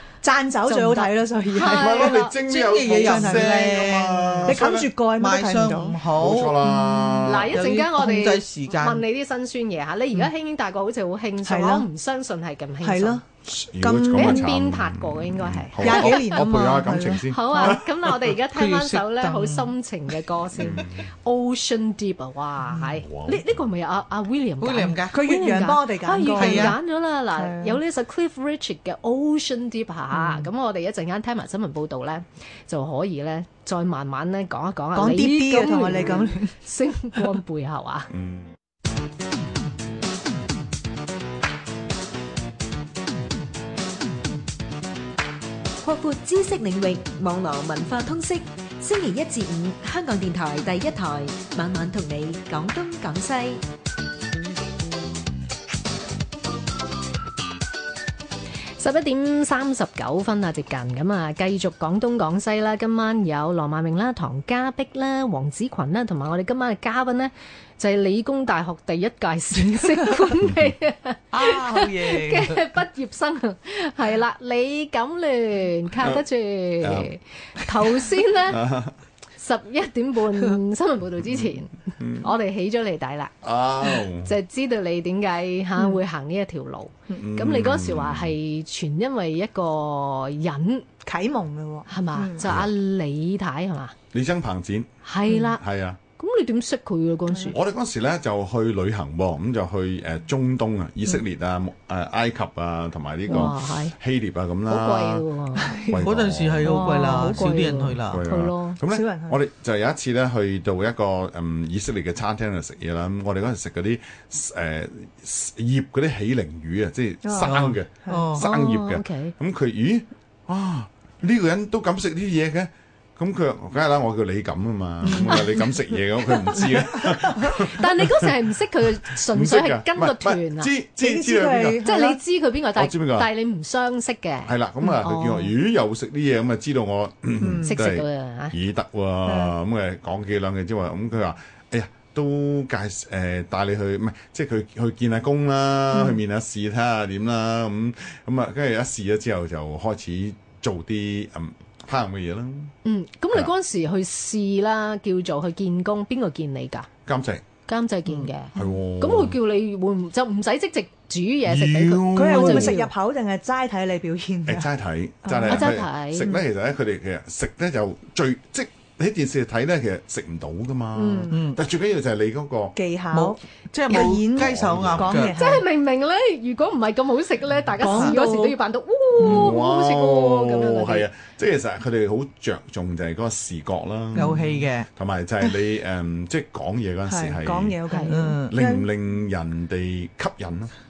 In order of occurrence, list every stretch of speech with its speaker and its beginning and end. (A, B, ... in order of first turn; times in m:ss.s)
0:00.2-0:02.2 A
0:00.7-0:02.3 B
0:01.6-0:04.9 C
0:02.4-0:04.6 D
0:02.9-0:03.7 A
0:04.4-0:06.0 A
0:05.2-0:06.6 D
0:06.2-0:07.6 C
0:06.6-0:07.3 A
0:07.2-0:13.2 B
0:07.5-0:09.0 D
0:11.4-0:11.9 A
0:12.8-0:13.2 A
0:13.5-0:18.3 C
0:13.8-0:14.5 A
0:14.1-0:16.4 B
0:15.8-0:17.8 A
0:17.3-0:38.1 B
0:18.5-0:19.7 D
0:20.6-0:21.0 C
0:23.0-0:23.5 C
0:24.6-0:25.2 D
0:25.1-0:26.8 A
0:26.3-0:26.8 D
0:27.3-0:27.8 A
0:30.1-0:30.5 A
0:34.9-0:36.5 A
0:38.1-0:38.5 C
0:45.8-0:53.6 E
0:58.8-1:18.6 B
1:09.8-1:10.3 A
1:11.3-1:12.6 D
1:16.8-1:17.1 C
1:18.5-1:18.9 C
1:19.4-1:23.3 B
1:21.3-1:22.3 C
1:23.4-1:24.3 C
1:23.8-1:30.9 B
1:27.1-1:28.4 C
1:31.0-1:32.5 A
1:31.9-1:33.9 B
1:32.4-1:32.7 C
1:34.1-1:36.0 C
1:35.0-1:35.6 B
1:36.2-1:37.6 B
1:37.5-1:46.8 C
1:43.3-1:43.9 B
1:44.7-1:45.8 B
1:45.6-1:46.1 A
1:46.0-1:48.2 D
1:46.6-1:48.0 A
1:46.6-1:48.8 B
1:48.1-2:08.3 C
1:48.9-1:49.4 A
1:57.2-1:58.3 A
1:57.4-1:58.4 D
1:58.4-1:59.3 B
2:05.0-2:05.7 A
2:06.4-2:07.6 A
2:07.4-2:10.7 B
2:09.1-2:11.8 C
2:11.0-2:12.2 A
2:11.8-2:15.5 B
2:12.8-2:13.3 C
2:14.4-2:32.7 C
2:17.4-2:17.8 A
2:17.6-2:18.6 B
2:19.3-2:19.5 A
2:32.8-2:36.9 B
2:37.1-2:37.4 C
2:37.7-2:42.9 B
2:38.6-2:39.4 C
2:41.4-2:42.9 C
2:42.1-2:44.7 A
2:44.5-2:52.8 C
2:45.2-2:45.7 A
2:45.5-2:46.3 B
2:50.9-2:51.4 A
2:51.3-2:51.6 D
2:52.8-2:55.6 A
2:53.1-2:55.3 D
2:54.0-2:55.3 C
2:55.3-3:01.1 B
2:57.8-2:58.6 A
2:59.2-3:07.8 C
3:04.1-3:04.4 A
3:04.2-3:04.9 D
3:07.1-3:08.9 A
3:07.9-3:08.1 B
3:08.1-3:08.5 D
3:08.5-3:10.7 C